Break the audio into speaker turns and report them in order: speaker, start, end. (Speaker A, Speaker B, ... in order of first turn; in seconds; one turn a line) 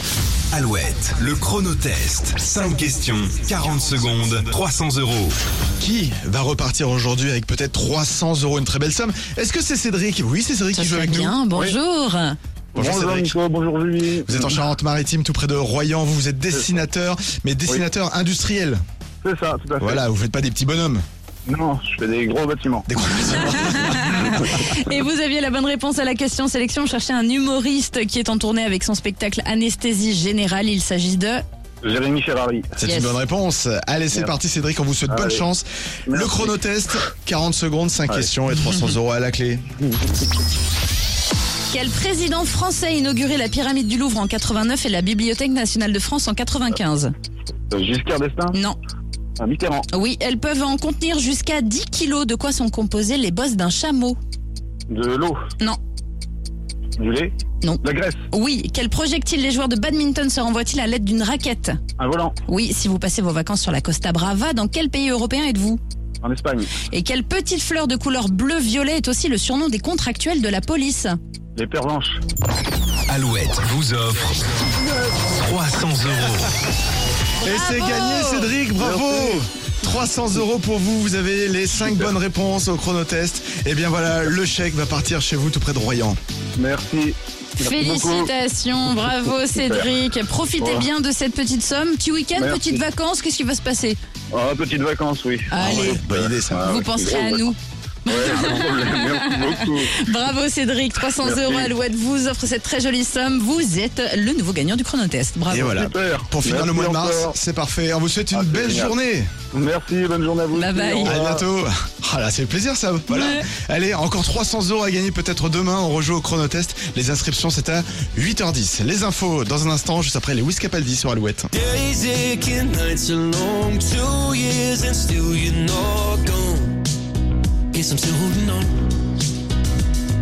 Speaker A: 0.5-5.4
Speaker B: 5.8-11.4
Speaker C: 10.7-12.4
Speaker D: 11.5-11.8
Speaker B: 12.8-13.3
Speaker D: 12.8-14.6
Speaker B: 14.2-18.8
Speaker D: 19.2-20.0
Speaker B: 19.8-21.0
Speaker D: 21.5-22.9
Speaker B: 22.9-24.5
Speaker C: 23.3-31.4
Speaker D: 31.8-32.7
Speaker B: 32.8-39.7
Speaker C: 32.8-33.2
Speaker D: 35.1-35.4
Speaker D: 36.1-36.5
Speaker C: 41.7-47.1
Speaker D: 47.7-48.5
Speaker D: 49.4-49.9
Speaker C: 49.9-54.2
Speaker D: 54.9-55.4
Speaker D: 57.0-58.2
Speaker C: 57.6-61.8
Speaker D: 62.0-62.4
Speaker C: 62.5-65.8
Speaker D: 66.2-66.7
Speaker C: 66.8-71.2
Speaker D: 71.5-72.2
Speaker A: 73.1-74.5
Speaker D: 74.7-75.3
Speaker A: 75.3-76.5
Speaker C: 77.4-78.5
Speaker B: 77.4-86.2
Speaker D: 78.8-79.4
Speaker D: 81.8-82.1
Speaker D: 86.6-88.3
Speaker C: 87.6-94.0
Speaker D: 89.5-89.9
Speaker D: 90.6-90.9
Speaker D: 92.4-92.8
Speaker D: 94.3-97.5
Speaker C: 95.5-96.0
Speaker B: 95.6-96.8
Speaker C: 96.5-97.6
Speaker D: 98.1-100.0
Speaker C: 98.1-105.8
Speaker D: 101.2-101.7
Speaker B: 105.5-109.3
Speaker D: 105.7-107.3
Speaker D: 108.3-108.9
Speaker D: 109.5-111.4
Speaker C: 110.5-111.2
Speaker B: 111.0-121.5
Speaker C: 113.1-113.5
Speaker E: 121.5-126.8
Speaker E: 127.7-129.1